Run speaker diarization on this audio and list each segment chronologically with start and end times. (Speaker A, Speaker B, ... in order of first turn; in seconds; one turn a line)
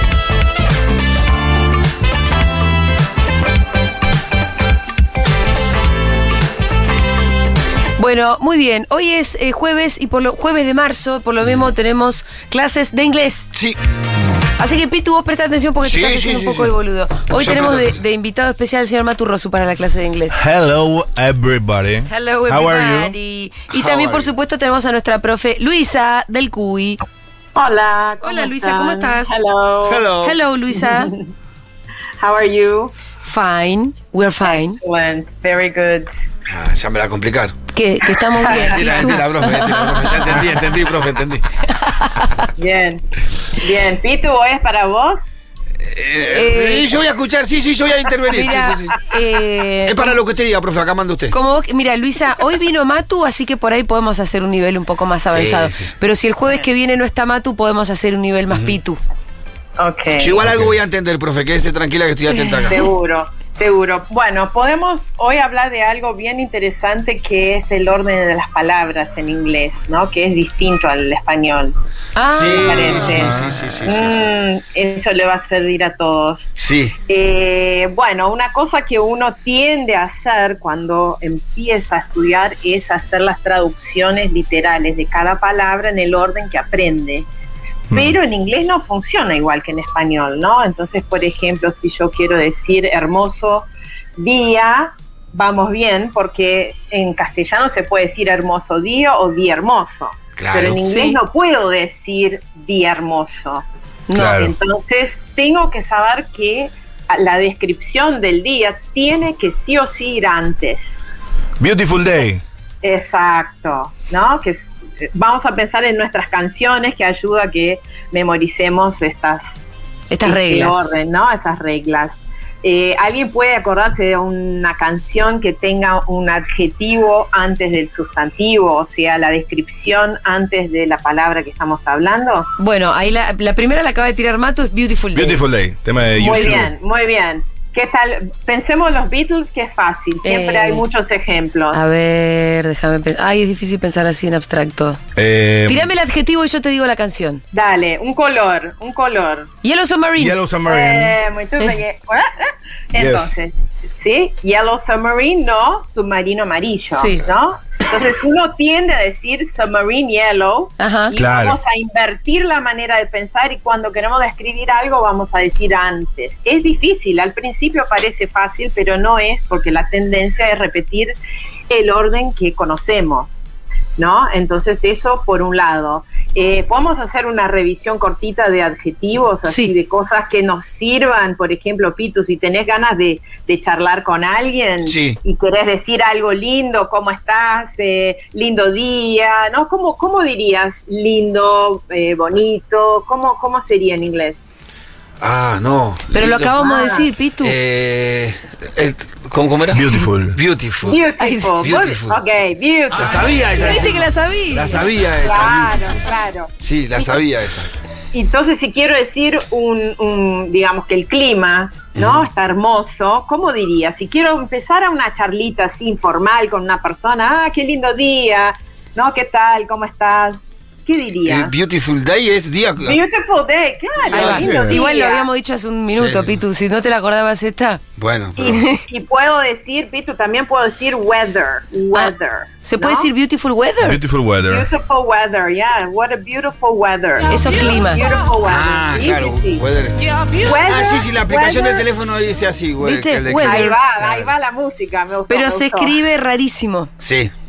Speaker A: 8.0-13.4
Speaker B: 11.4-11.7
Speaker B: 13.5-13.8
Speaker A: 14.6-20.4
Speaker B: 15.8-16.8
Speaker B: 17.3-18.0
Speaker C: 20.3-23.1
Speaker A: 22.1-27.0
Speaker B: 23.7-24.3
Speaker D: 27.5-30.2
Speaker A: 28.2-29.4
Speaker B: 29.8-30.4
Speaker A: 30.2-31.1
Speaker D: 30.7-31.3
Speaker D: 32.2-32.9
Speaker A: 33.2-34.8
Speaker D: 34.4-36.1
Speaker B: 36.5-37.6
Speaker A: 37.7-40.5
Speaker D: 38.1-39.1
Speaker B: 38.3-41.5
Speaker A: 41.7-42.3
Speaker D: 42.5-43.0
Speaker D: 43.6-45.2
Speaker B: 45.8-49.1
Speaker A: 46.3-46.9
Speaker A: 48.3-50.2
Speaker B: 49.8-51.4
Speaker A: 51.3-59.0
Speaker B: 55.3-55.9
Speaker B: 58.5-58.8
Speaker D: 59.8-60.4
Speaker B: 60.2-62.8
Speaker C: 60.4-60.7
Speaker A: 62.3-62.8
Speaker D: 62.6-71.7
Speaker A: 72.2-73.7
Speaker B: 72.3-74.2
Speaker D: 72.4-76.5
Speaker C: 73.0-73.5
Speaker B: 76.6-76.9
Speaker D: 77.0-87.3
Speaker C: 87.9-88.2
Speaker D: 87.9-103.6
Speaker B: 100.4-101.0
Speaker A: 100.8-101.1
Speaker C: 104.1-104.5
Speaker D: 104.3-111.0
Speaker C: 111.6-112.4
Speaker D: 112.8-119.5
Speaker A: 120.1-120.9
Speaker D: 120.2-132.5
Speaker A: 132.6-135.4
Speaker C: 135.1-136.7
Speaker D: 136.2-141.8
Speaker A: 140.2-140.8
Speaker A: 141.7-145.0
Speaker C: 145.1-145.9
Speaker A: 145.7-147.4
Speaker D: 147.5-149.5
Speaker A: 149.6-150.4
Speaker C: 150.2-151.2
Speaker D: 150.7-171.1
Speaker C: 152.9-153.4
Speaker A: 156.9-157.2
Speaker A: 160.8-161.1
Speaker C: 161.2-161.6
Speaker D: 171.7-173.4
Speaker D: 174.0-194.4
Speaker B: 184.8-185.2
Speaker B: 195.2-196.7
Speaker A: 196.2-197.5
Speaker D: 196.6-197.1
Speaker B: 197.4-202.2
Speaker C: 199.7-200.4
Speaker D: 200.8-203.9
Speaker A: 201.2-201.4
Speaker B: 202.9-205.9
Speaker A: 203.6-204.9
Speaker D: 205.2-207.2
Speaker B: 206.6-207.7
Speaker D: 208.1-221.5
Speaker B: 211.9-212.2
Speaker B: 221.2-223.0
Speaker D: 222.8-225.3
Speaker B: 224.1-224.8
Speaker A: 224.2-227.8
Speaker C: 224.3-224.8
Speaker B: 225.9-226.4
Speaker B: 228.0-228.6
Speaker D: 228.4-233.1
Speaker A: 228.5-228.8
Speaker A: 231.9-234.0
Speaker C: 233.8-234.7
Speaker D: 234.4-239.6
Speaker A: 237.3-238.0
Speaker B: 238.4-239.9
Speaker D: 240.4-241.9
Speaker B: 240.6-244.3
Speaker A: 242.8-243.8
Speaker D: 243.4-246.0
Speaker A: 245.3-246.9
Speaker B: 247.0-247.3